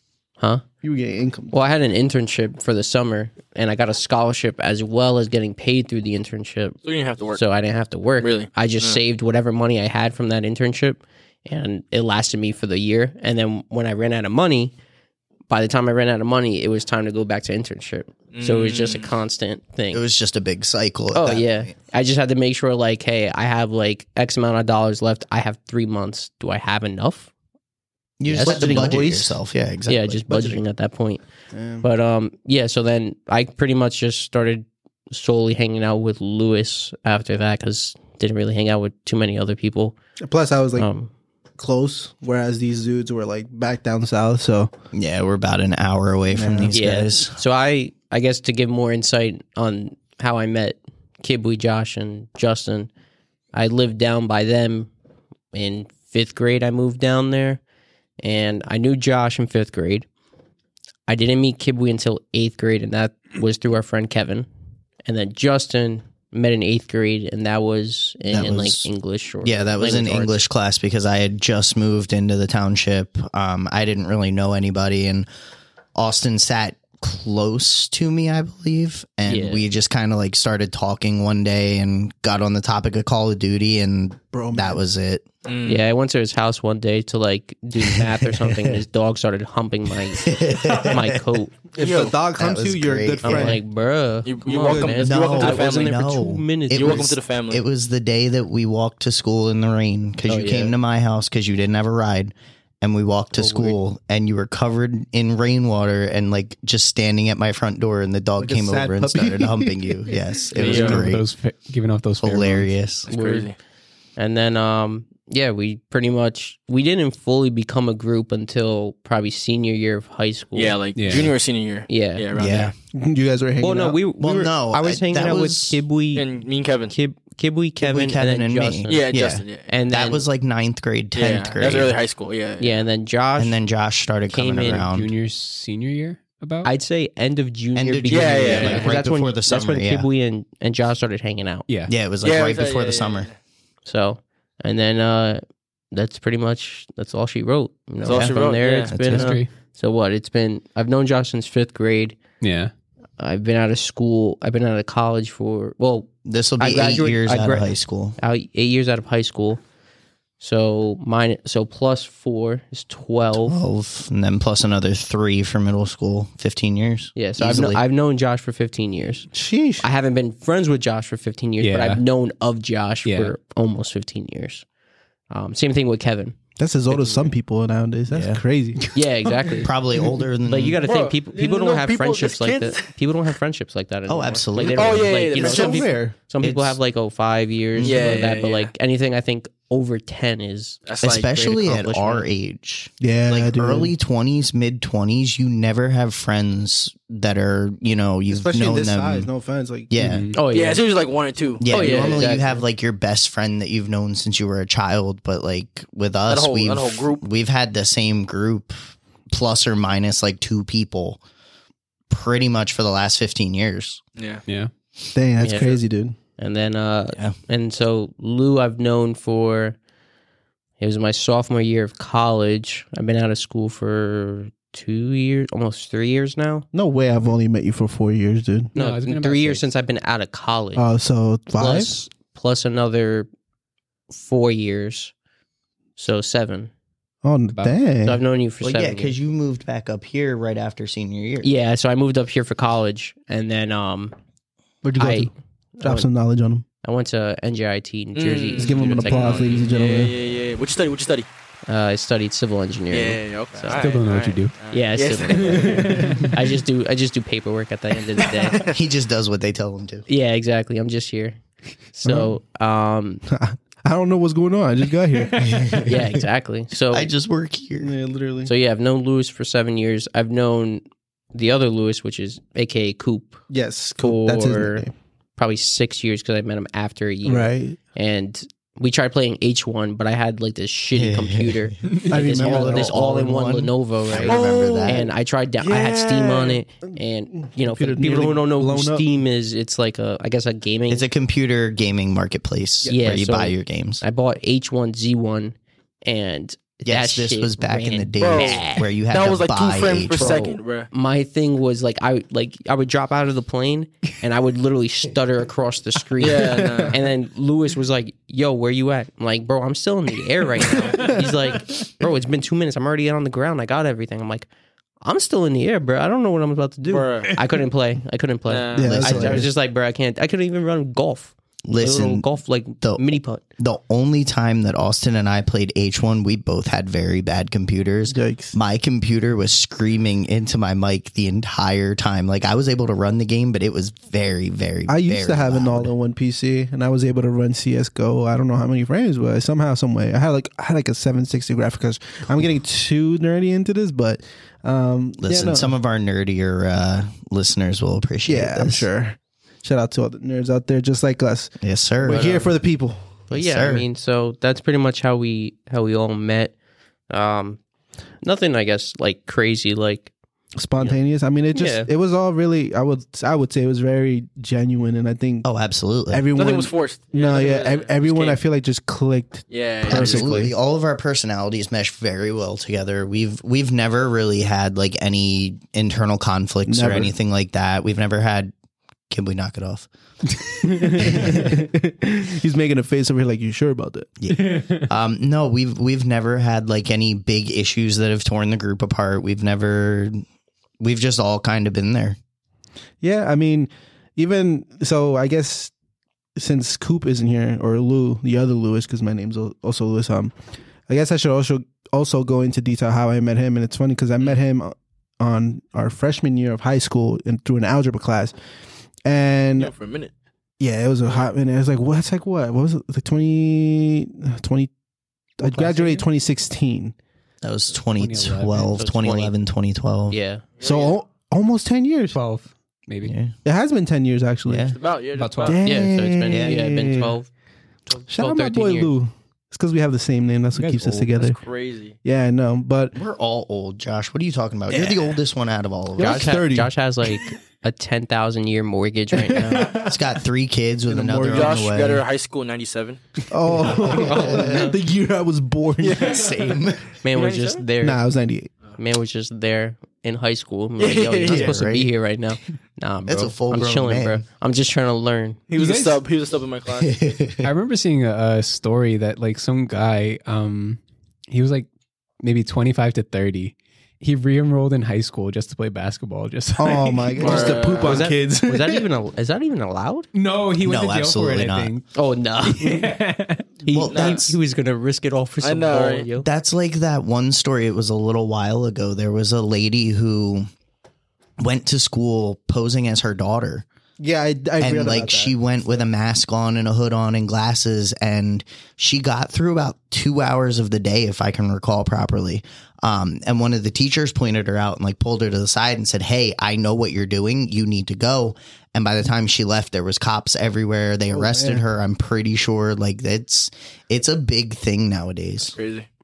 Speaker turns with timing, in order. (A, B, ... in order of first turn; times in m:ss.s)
0:00.8-0:01.6 A
0:01.5-0:06.8 B
0:06.8-0:07.4 C
0:07.3-0:14.7 B
0:08.2-0:09.0 C
0:15.5-0:20.0 B
0:18.3-0:19.1 C
0:19.9-0:21.7 D
0:21.1-0:27.3 B
0:28.2-0:30.2 D
0:28.3-0:29.1 B
0:28.3-0:29.4 A
0:29.9-0:31.2 B
0:30.3-0:30.6 A
0:31.5-0:31.8 A
0:31.8-0:39.9 B
0:40.2-0:40.9 A
0:40.8-0:41.1 B
0:41.6-0:44.7 A
0:44.9-0:47.4 D
0:46.3-0:46.8 A
0:46.7-0:52.9 B
0:53.5-0:54.9 B
0:55.5-0:57.6 B
0:58.2-1:00.0 B
1:01.1-1:04.5 B
1:05.0-1:10.4 B
1:08.3-1:08.9 D
1:09.4-1:15.3 D
1:16.0-1:25.2 D
1:19.2-1:19.7 B
1:24.3-1:24.8 A
1:25.4-1:25.8 C
1:25.6-1:31.5 B
1:27.8-1:28.8 D
1:30.2-1:31.2 D
1:31.7-1:33.6 A
1:31.8-1:32.2 C
1:32.3-1:33.6 D
1:33.2-1:37.1 B
1:34.2-1:36.0 C
1:34.7-1:35.0 A
1:35.0-1:51.2 D
1:36.7-1:37.6 C
1:40.2-1:40.8 B
1:43.3-1:43.8 B
1:48.4-1:50.1 A
1:50.6-1:51.1 C
1:50.6-1:52.7 E
1:52.2-1:53.1 D
1:53.0-1:53.5 C
1:53.1-1:53.5 B
1:54.2-2:00.8 B
2:00.5-2:02.7 C
2:01.0-2:01.3 E
2:01.9-2:02.2 B
2:02.3-2:02.7 D
2:02.9-2:04.0 A
2:03.6-2:06.3 B
2:04.2-2:05.8 D
2:06.1-2:06.9 C
2:06.9-2:09.1 B
2:07.8-2:12.0 D
2:08.9-2:09.7 C
2:09.7-2:10.2 B
2:11.1-2:12.8 C
2:12.6-2:13.6 B
2:13.4-2:15.1 D
2:14.3-2:14.9 B
2:14.8-2:16.7 E
2:16.6-2:21.7 B
2:17.7-2:20.1 D
2:18.1-2:18.9 C
2:18.6-2:19.0 E
2:21.7-2:21.9 E
2:21.9-2:23.3 D
2:22.2-2:23.3 C
2:23.8-2:25.4 B
2:25.9-2:32.2 B
2:28.0-2:29.0 C
2:28.1-2:29.4 D
2:29.1-2:29.5 E
2:32.4-2:32.7 E
2:33.2-2:39.6 B
2:36.2-2:38.2 D
2:40.4-2:43.6 B
2:43.4-2:47.8 D
2:47.1-2:54.6 B
2:49.3-2:49.8 A
2:51.6-2:52.0 E
2:53.0-2:53.3 E
2:55.3-2:56.4 B
2:56.6-2:58.8 A
2:56.9-2:57.3 B
2:58.1-2:58.4 D
2:58.9-2:59.7 B
2:59.6-3:00.8 D
3:00.4-3:12.3 B
3:00.8-3:02.8 C
3:04.1-3:05.1 D
3:04.8-3:05.8 C
3:05.3-3:06.2 A
3:06.4-3:06.8 D
3:07.7-3:08.1 D
3:07.8-3:08.7 C
3:10.8-3:11.3 C
3:11.0-3:19.3 D
3:13.0-3:13.9 A
3:18.3-3:19.9 A
3:19.9-3:20.3 D
3:20.0-3:20.4 E
3:20.3-3:20.8 B
3:20.5-3:22.3 C
3:21.6-3:31.2 D
3:21.6-3:22.6 B
3:26.3-3:27.2 C
3:32.1-3:34.0 D
3:34.2-3:34.4 C
3:35.1-3:36.1 A
3:35.4-3:35.8 B
3:36.4-3:39.8 B
3:40.8-3:46.6 B
3:46.7-3:48.7 A
3:48.7-3:49.7 E
3:48.7-3:50.8 B
3:50.7-3:52.0 A
3:51.6-3:53.3 B
3:54.1-3:55.1 B
3:56.0-3:56.7 B
3:57.2-3:58.2 A
3:58.0-3:59.1 B
3:58.6-4:01.5 D
4:01.4-4:04.1 B
4:04.8-4:06.6 A
4:05.0-4:06.1 B
4:06.8-4:09.7 B
4:08.1-4:11.3 C
4:08.6-4:10.1 A
4:11.7-4:13.8 B
4:12.9-4:15.8 C
4:13.7-4:14.5 E
4:14.7-4:18.6 B
4:15.2-4:16.3 E
4:18.6-4:20.0 D
4:20.1-4:21.4 B
4:21.9-4:23.2 B
4:22.0-4:22.4 A
4:23.3-4:25.8 A
4:25.3-4:26.2 D
4:25.8-4:27.1 B
4:26.9-4:27.9 D
4:27.8-4:28.5 A
4:28.4-4:30.8 B
4:31.3-4:33.4 B
4:33.5-4:34.9 A
4:34.0-4:51.1 B
4:37.2-4:37.8 A
4:41.0-4:41.6 D
4:42.1-4:43.0 A
4:42.3-4:45.1 D
4:44.2-4:45.0 C
4:45.6-4:46.6 C
4:46.9-4:49.1 A
4:50.9-4:54.0 D
4:52.8-4:58.9 B
4:56.8-5:00.4 D
4:58.2-5:00.9 C
5:00.1-5:14.5 B
5:06.2-5:07.0 C
5:06.4-5:06.9 A
5:15.0-5:23.4 B
5:16.9-5:17.3 C
5:18.5-5:19.0 C
5:18.7-5:19.5 A
5:18.9-5:19.4 D
5:21.6-5:22.2 D
5:23.6-5:35.9 D
5:28.1-5:28.6 A
5:34.9-5:45.7 A
5:45.2-5:48.9 D
5:48.2-5:53.2 A
5:51.6-5:52.3 D
5:52.1-5:52.5 B
5:53.3-5:56.5 B
5:53.3-5:53.8 D
5:57.1-5:57.6 B
5:58.2-6:00.1 B
6:00.6-6:05.5 A
6:01.5-6:01.9 B
6:05.4-6:06.2 D
6:06.1-6:10.5 A
6:06.3-6:08.4 C
6:09.5-6:10.3 C
6:09.8-6:18.5 D
6:16.7-6:17.1 A
6:19.1-6:19.9 D
6:20.6-6:24.1 A
6:24.2-6:30.2 D
6:24.3-6:24.8 E
6:30.8-6:32.2 D
6:33.0-6:35.7 A
6:36.4-6:40.3 A
6:40.9-6:48.3 A
6:49.0-6:49.7 A
6:49.6-6:50.1 C
6:50.6-6:54.7 A
6:55.4-6:56.9 A
6:55.4-6:56.0 E
6:57.4-7:00.2 D
6:57.9-6:58.7 E
6:58.7-6:59.3 B
7:00.1-7:00.4 B
7:00.6-7:01.0 C
7:00.6-7:02.2 A
7:02.1-7:03.1 E
7:03.0-7:03.3 D
7:03.4-7:04.7 A
7:04.4-7:04.8 D
7:04.7-7:05.6 C
7:05.1-7:05.7 E
7:05.4-7:07.2 A
7:05.6-7:07.3 B
7:06.3-7:06.7 D
7:07.9-7:08.9 B
7:08.1-7:11.4 A
7:10.5-7:11.1 E
7:11.1-7:11.9 C
7:12.0-7:13.0 A
7:12.9-7:16.3 D
7:16.0-7:19.7 B
7:16.0-7:16.7 A
7:19.5-7:19.8 E
7:19.8-7:22.0 D
7:20.9-7:21.8 A
7:21.3-7:23.0 C
7:23.3-7:26.1 A
7:23.9-7:24.8 D
7:25.8-7:26.2 C
7:26.0-7:27.0 D
7:27.0-7:28.0 B
7:27.1-7:27.6 C
7:27.8-7:28.5 A
7:28.8-7:35.4 B
7:30.8-7:31.5 C
7:31.2-7:31.9 D
7:33.1-7:34.2 D
7:35.5-7:37.0 C
7:35.5-7:36.0 E
7:36.7-7:37.5 D
7:37.4-7:41.7 E
7:42.2-7:47.5 E
7:46.6-7:48.8 A
7:47.2-7:48.1 C
7:47.2-7:50.1 B
7:50.1-7:51.8 E
7:50.6-7:51.7 D
7:51.9-7:53.0 B
7:52.4-7:53.5 E
7:53.6-7:56.3 B
7:53.7-7:54.4 D
7:53.9-7:54.2 C
7:55.4-7:56.1 C
7:56.2-8:00.5 D
8:01.4-8:03.6 D
8:04.0-8:05.4 A
8:04.6-8:25.5 D
8:21.1-8:21.6 A
8:25.5-8:25.9 C